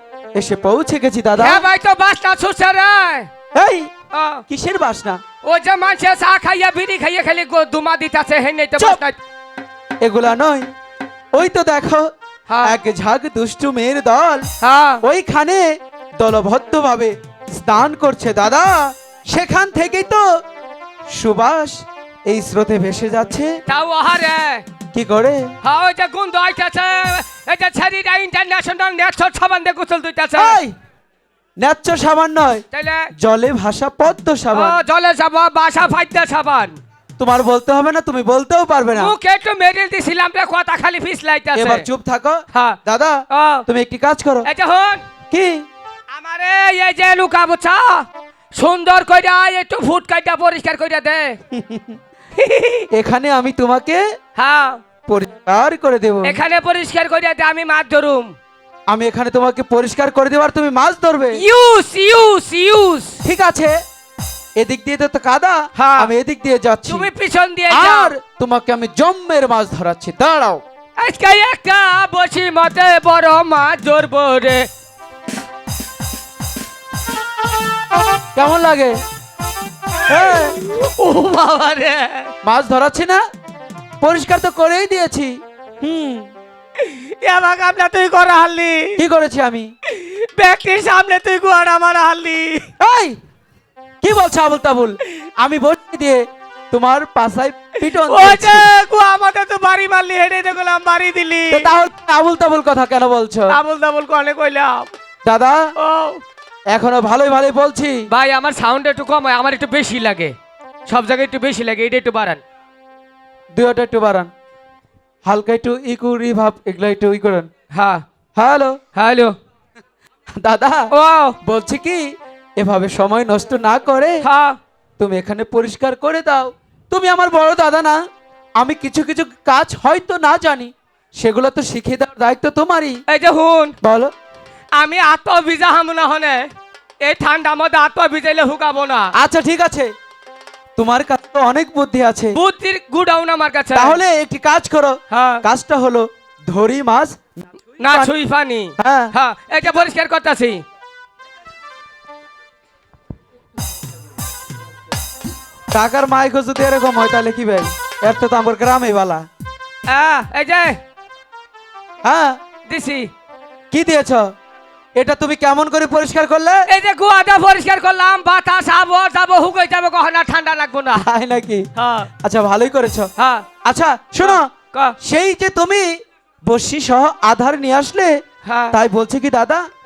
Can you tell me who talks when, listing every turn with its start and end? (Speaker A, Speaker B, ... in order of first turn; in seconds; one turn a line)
Speaker A: 0.3-1.6
Speaker B: 1.4-3.3
Speaker A: 3.5-3.9
Speaker B: 4.1-4.4
Speaker A: 4.5-5.2
Speaker B: 5.4-9.2
Speaker A: 10.0-10.7
Speaker A: 11.3-12.1
Speaker B: 12.5-12.8
Speaker A: 12.6-14.4
Speaker B: 14.6-15.0
Speaker A: 15.0-15.6
Speaker A: 16.2-20.2
Speaker A: 21.1-23.5
Speaker B: 23.7-24.6
Speaker A: 24.9-25.5
Speaker B: 25.6-30.6
Speaker A: 30.4-30.7
Speaker A: 31.6-32.6
Speaker B: 32.7-33.1
Speaker A: 33.2-34.8
Speaker B: 34.5-36.8
Speaker A: 37.2-39.1
Speaker B: 38.9-41.9
Speaker A: 41.5-44.5
Speaker B: 42.5-42.8
Speaker B: 43.3-43.6
Speaker B: 44.4-45.0
Speaker A: 45.3-45.6
Speaker B: 46.1-51.4
Speaker A: 51.5-52.0
Speaker B: 52.4-52.9
Speaker A: 52.9-54.0
Speaker B: 54.4-54.8
Speaker A: 55.1-56.4
Speaker B: 56.2-58.3
Speaker A: 58.9-61.4
Speaker B: 61.3-63.2
Speaker A: 63.2-63.7
Speaker A: 64.6-67.1
Speaker B: 65.8-66.1
Speaker B: 66.9-68.1
Speaker A: 67.7-70.6
Speaker B: 71.0-74.7
Speaker A: 78.3-79.0
Speaker A: 80.1-80.5
Speaker B: 80.1-82.3
Speaker A: 82.4-83.2
Speaker A: 84.0-86.3
Speaker B: 86.8-89.0
Speaker A: 89.0-89.7
Speaker B: 89.8-92.7
Speaker A: 92.8-93.2
Speaker A: 94.0-98.7
Speaker B: 97.8-101.8
Speaker A: 101.5-103.6
Speaker B: 103.5-104.9
Speaker A: 105.2-105.6
Speaker B: 105.8-106.2
Speaker A: 106.7-108.1
Speaker B: 108.1-110.3
Speaker B: 110.9-112.4
Speaker A: 113.5-114.3
Speaker A: 115.2-117.5
Speaker B: 117.7-118.0
Speaker A: 118.4-118.8
Speaker B: 118.9-119.3
Speaker A: 120.4-120.9
Speaker B: 120.9-121.4
Speaker A: 121.4-124.2
Speaker B: 124.2-124.6
Speaker A: 125.0-128.0
Speaker A: 128.6-133.0
Speaker B: 133.1-133.8
Speaker A: 133.8-134.1
Speaker B: 134.8-136.5
Speaker B: 137.0-139.1
Speaker A: 139.1-139.9
Speaker A: 140.8-142.4
Speaker B: 142.3-144.0
Speaker A: 143.7-147.2
Speaker B: 145.1-145.4
Speaker B: 147.8-150.6
Speaker A: 148.8-149.1
Speaker A: 155.7-159.2
Speaker B: 159.9-160.8
Speaker A: 162.0-162.4
Speaker B: 162.7-163.1
Speaker A: 163.7-164.2
Speaker A: 165.0-166.7
Speaker B: 166.7-171.0
Speaker A: 171.0-171.7
Speaker B: 171.8-172.1
Speaker A: 172.2-173.1
Speaker B: 173.2-173.5
Speaker A: 173.6-174.5
Speaker B: 174.2-174.9
Speaker A: 175.0-175.9
Speaker A: 176.5-178.1
Speaker B: 178.4-178.8
Speaker A: 178.7-179.6